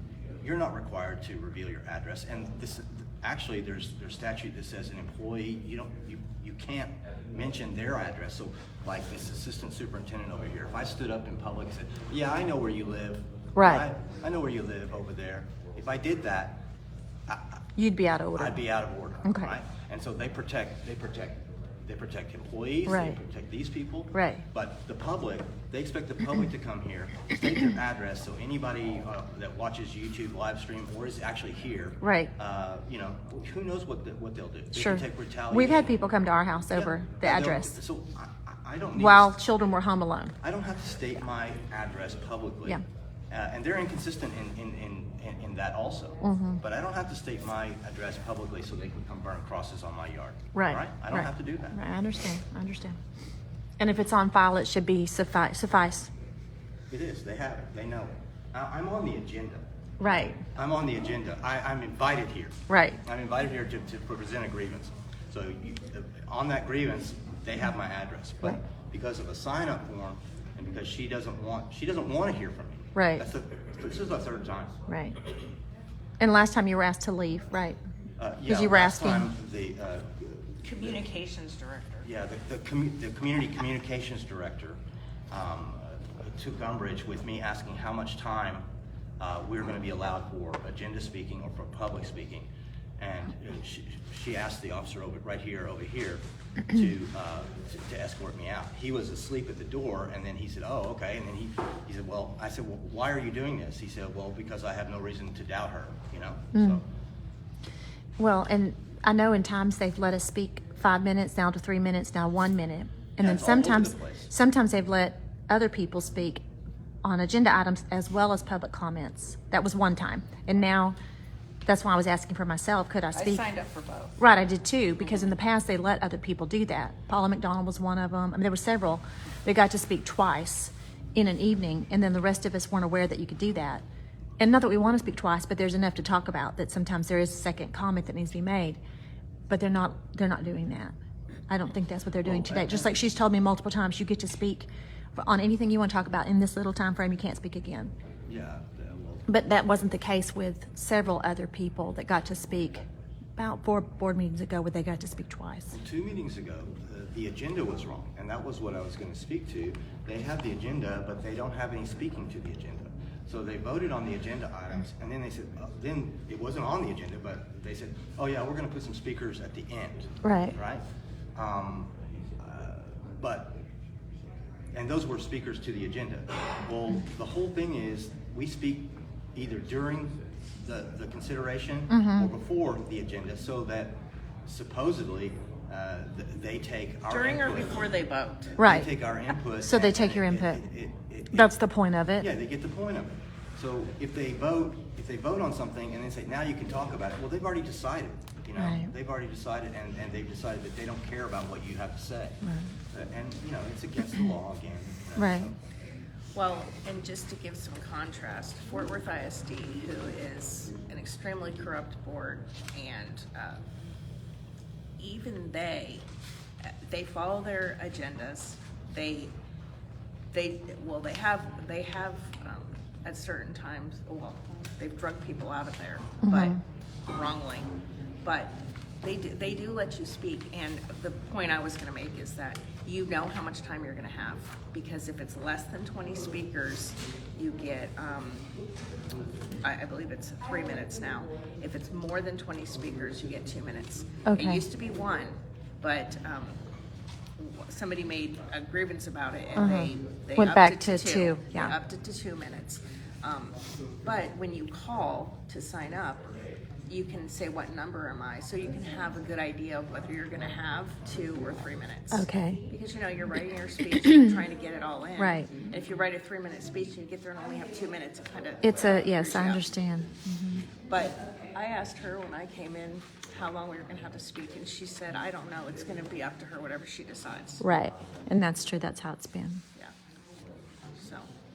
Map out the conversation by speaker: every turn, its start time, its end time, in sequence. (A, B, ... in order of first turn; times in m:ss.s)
0:00.4-0:16.6 A
0:13.6-0:13.8 B
0:17.3-0:17.6 A
0:17.8-0:18.6 B
0:18.4-0:35.9 A
0:19.2-0:19.5 B
0:22.8-0:23.2 B
0:24.1-0:24.4 B
0:32.0-0:32.3 B
0:34.7-0:37.8 B
0:36.7-0:39.3 A
0:39.0-0:40.3 B
0:40.4-0:51.8 A
0:46.2-0:46.6 B
0:50.5-0:53.0 B
0:53.8-0:56.1 B
0:56.9-0:59.6 A
1:00.0-1:00.4 B
1:00.5-1:14.8 A
1:02.7-1:03.0 B
1:12.9-1:13.2 B
1:14.9-1:15.2 B
1:16.2-1:17.8 B
1:18.2-1:21.0 A
1:18.4-1:19.3 B
1:20.6-1:22.1 C
1:22.0-1:24.8 A
1:25.3-1:28.6 A
1:29.2-1:32.5 A
1:33.0-1:46.8 A
1:46.5-1:46.8 B
1:48.2-1:56.4 B
1:53.2-1:54.3 A
1:57.0-2:01.0 B
2:01.6-2:03.4 B
2:03.1-2:04.1 C
2:04.2-2:13.8 B
2:14.4-2:18.8 B
2:19.5-2:20.9 B
2:21.5-2:27.9 B
2:22.2-2:22.9 A
2:28.3-2:29.7 A
2:29.3-2:32.8 B
2:33.4-2:35.7 B
2:35.7-2:50.8 A
2:50.2-2:50.6 B
2:51.4-2:53.6 A
2:54.7-3:07.9 A
3:01.9-3:02.3 B
3:07.1-3:08.5 C
3:08.6-3:11.5 A
3:08.6-3:08.9 B
3:09.6-3:10.6 B
3:11.3-3:12.3 B
3:12.2-3:22.4 A
3:18.6-3:18.9 B
3:22.4-3:22.7 B
3:22.9-3:25.5 A
3:25.2-3:25.5 B
3:26.3-3:33.6 C
3:35.0-3:36.0 C
3:36.6-3:39.3 C
3:40.3-3:47.7 C
3:46.2-3:46.6 B
3:48.2-3:58.5 C
3:59.6-4:06.6 C
4:04.2-4:04.6 B
4:07.4-4:16.4 C
4:09.5-4:11.7 B
4:16.9-4:29.6 C
4:22.1-4:22.6 B
4:25.2-4:25.5 B
4:28.6-4:30.7 B
4:30.8-4:37.6 C
4:37.6-4:39.6 B
4:40.9-4:41.3 C